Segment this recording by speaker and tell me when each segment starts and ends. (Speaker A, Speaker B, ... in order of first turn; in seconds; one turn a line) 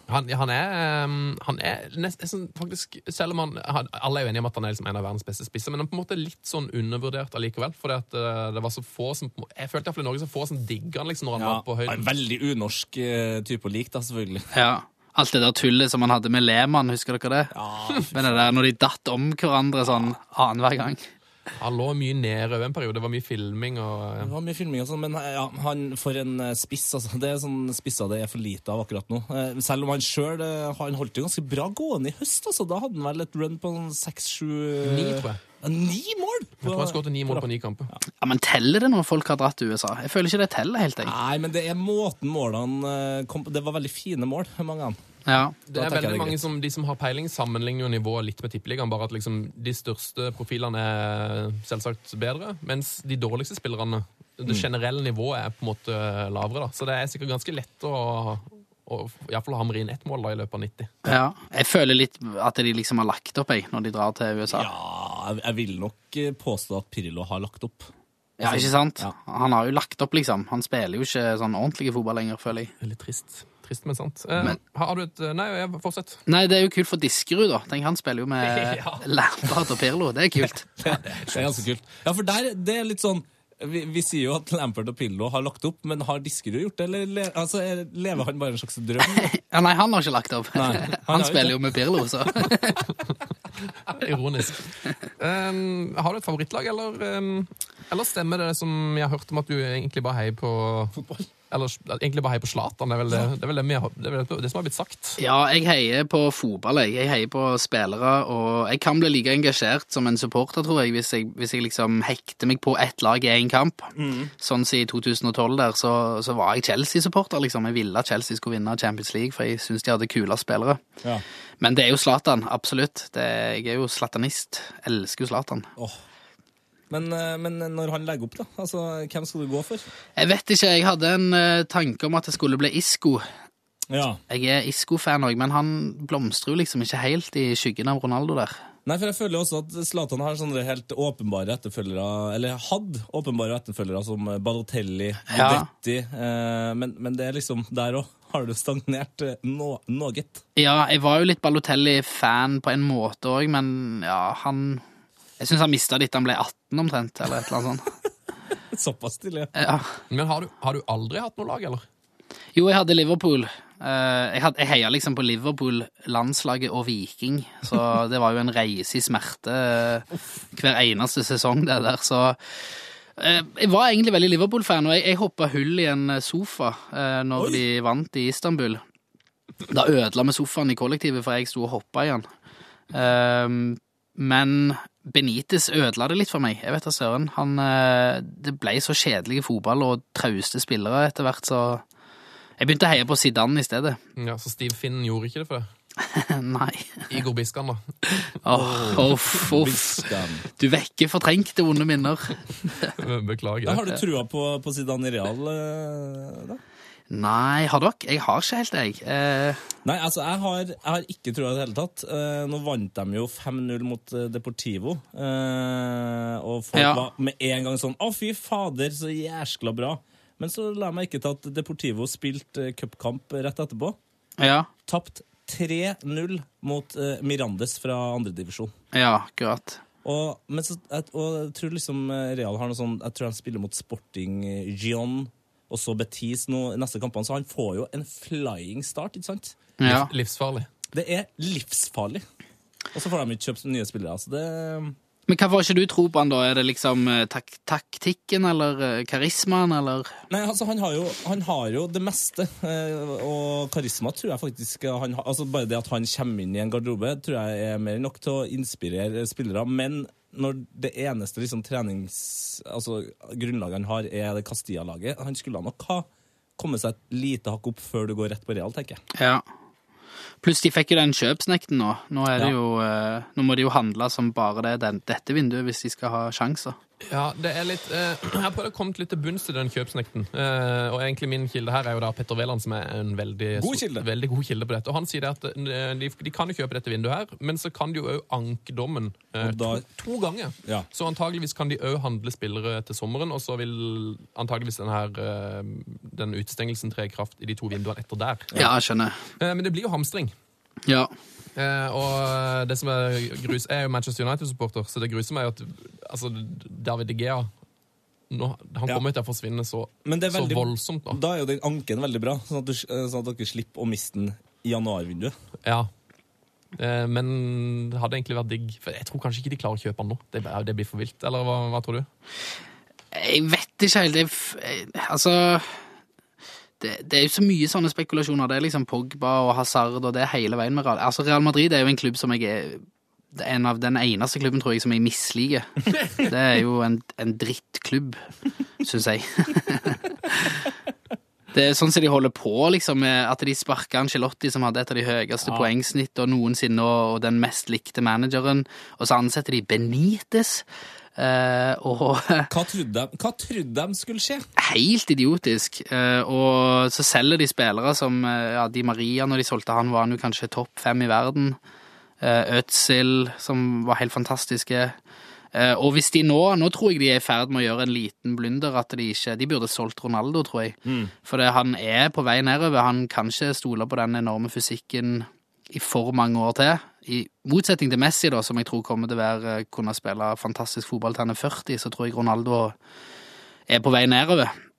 Speaker A: 0.1-12.1
Speaker B: 11.4-14.5
Speaker C: 14.5-17.5
Speaker B: 17.5-18.5
Speaker C: 18.1-21.0
Speaker A: 21.6-24.3
Speaker B: 24.2-38.0
Speaker A: 34.8-35.4
Speaker A: 36.6-37.9
Speaker C: 38.2-41.1
Speaker B: 41.0-45.0
Speaker C: 45.3-45.5
Speaker A: 45.7-60.9
Speaker B: 45.7-46.5
Speaker C: 61.1-64.7
Speaker B: 64.5-67.9
Speaker C: 68.4-72.7
Speaker B: 68.4-69.2
Speaker A: 72.8-76.2
Speaker C: 76.3-80.7
Speaker A: 78.4-79.1
Speaker B: 80.8-89.3
Speaker A: 81.1-81.6
Speaker C: 89.1-92.8
Speaker B: 90.5-92.0
Speaker A: 93.9-94.7
Speaker A: 95.2-101.0
Speaker B: 100.9-101.3
Speaker A: 101.5-105.2
Speaker C: 105.2-120.8
Speaker B: 114.0-114.3
Speaker C: 121.6-125.7
Speaker B: 126.9-129.8
Speaker C: 130.2-133.2
Speaker B: 133.9-134.2
Speaker C: 134.3-138.6
Speaker B: 138.8-150.4
Speaker C: 145.3-145.7
Speaker C: 150.6-154.8
Speaker C: 155.4-157.9
Speaker B: 158.7-159.5
Speaker C: 159.6-159.9
Speaker A: 160.1-161.8
Speaker C: 162.6-172.4
Speaker C: 173.2-178.8
Speaker B: 177.4-177.6
Speaker C: 179.7-182.3
Speaker C: 182.9-191.8
Speaker C: 192.6-194.0
Speaker A: 194.2-195.7
Speaker C: 196.0-197.1
Speaker A: 197.1-197.8
Speaker C: 198.4-202.9
Speaker B: 198.5-200.5
Speaker A: 203.0-204.0
Speaker B: 203.7-206.6
Speaker C: 207.1-209.6
Speaker B: 209.8-224.0
Speaker C: 216.7-217.1
Speaker C: 224.4-224.7
Speaker B: 224.9-228.7
Speaker C: 228.9-229.8
Speaker B: 230.0-239.6
Speaker C: 239.8-240.1
Speaker A: 239.8-240.7
Speaker B: 240.9-242.2
Speaker B: 242.9-245.0
Speaker C: 245.3-250.1
Speaker B: 250.3-269.0
Speaker C: 269.2-269.4
Speaker C: 270.4-276.8
Speaker A: 277.1-298.6
Speaker B: 283.6-284.1
Speaker B: 289.4-289.8
Speaker C: 298.6-299.2
Speaker A: 299.4-300.3
Speaker C: 300.9-301.1
Speaker A: 301.6-307.5
Speaker A: 308.3-311.2
Speaker B: 310.1-315.4
Speaker A: 316.8-322.1
Speaker C: 323.1-325.8
Speaker C: 326.8-338.2
Speaker C: 338.8-340.7
Speaker C: 341.5-350.6
Speaker B: 345.4-345.7
Speaker C: 351.2-352.5
Speaker B: 352.5-354.5
Speaker C: 354.6-361.6
Speaker C: 362.2-365.0
Speaker C: 365.5-382.8
Speaker B: 370.9-371.1
Speaker C: 383.7-384.5